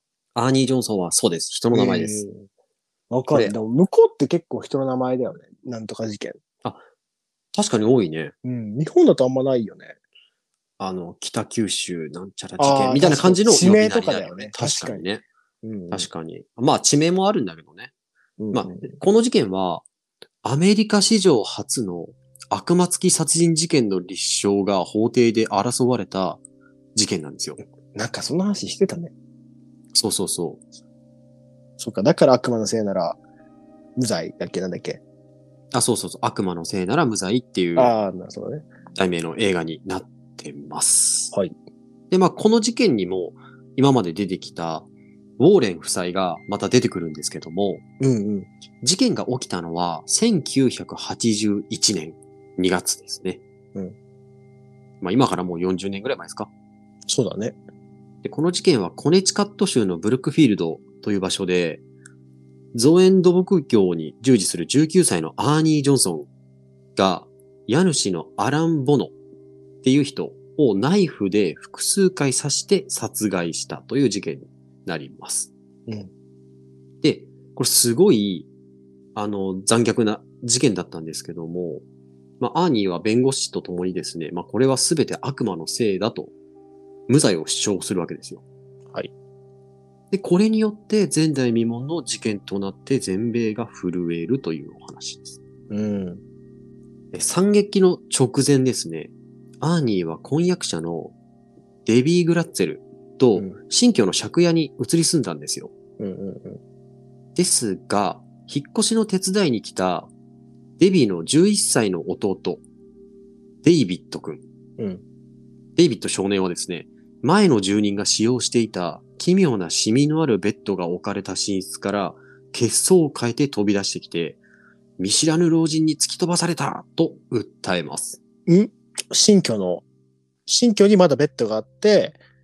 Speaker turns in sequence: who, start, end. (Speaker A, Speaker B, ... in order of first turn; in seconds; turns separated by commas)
Speaker A: 0.3-2.2, Speaker B: 1.7-2.5, Speaker B: 3.1-6.4, Speaker A: 7.5-8.3, Speaker B: 8.4-10.0, Speaker A: 10.8-15.2, Speaker B: 12.6-15.1, Speaker B: 15.6-16.1, Speaker A: 15.9-17.9, Speaker B: 18.4-19.0, Speaker A: 18.5-19.9, Speaker A: 20.4-26.4, Speaker A: 26.9-27.6, Speaker B: 27.9-29.1, Speaker A: 29.9-30.6, Speaker B: 31.8-33.2, Speaker B: 34.0-35.0, Speaker A: 35.7-37.9, Speaker B: 37.8-38.7, Speaker A: 39.0-41.3, Speaker A: 42.1-44.9, Speaker A: 45.4-47.8, Speaker B: 48.0-48.5, Speaker A: 48.8-53.4, Speaker A: 55.0-56.5, Speaker B: 57.1-57.6, Speaker A: 58.2-61.8, Speaker A: 62.7-66.3, Speaker A: 67.0-69.1, Speaker A: 69.8-75.5, Speaker A: 77.0-78.5, Speaker A: 79.2-81.8, Speaker A: 82.4-86.3, Speaker A: 87.1-88.4, Speaker A: 90.1-95.4, Speaker B: 95.7-96.2, Speaker A: 97.1-101.2, Speaker A: 101.9-105.7, Speaker B: 106.0-106.6, Speaker A: 107.3-110.1, Speaker A: 110.8-112.6, Speaker A: 113.6-114.4, Speaker B: 114.8-115.0, Speaker A: 115.8-124.4, Speaker A: 125.0-128.2, Speaker B: 128.5-129.8, Speaker B: 130.5-132.2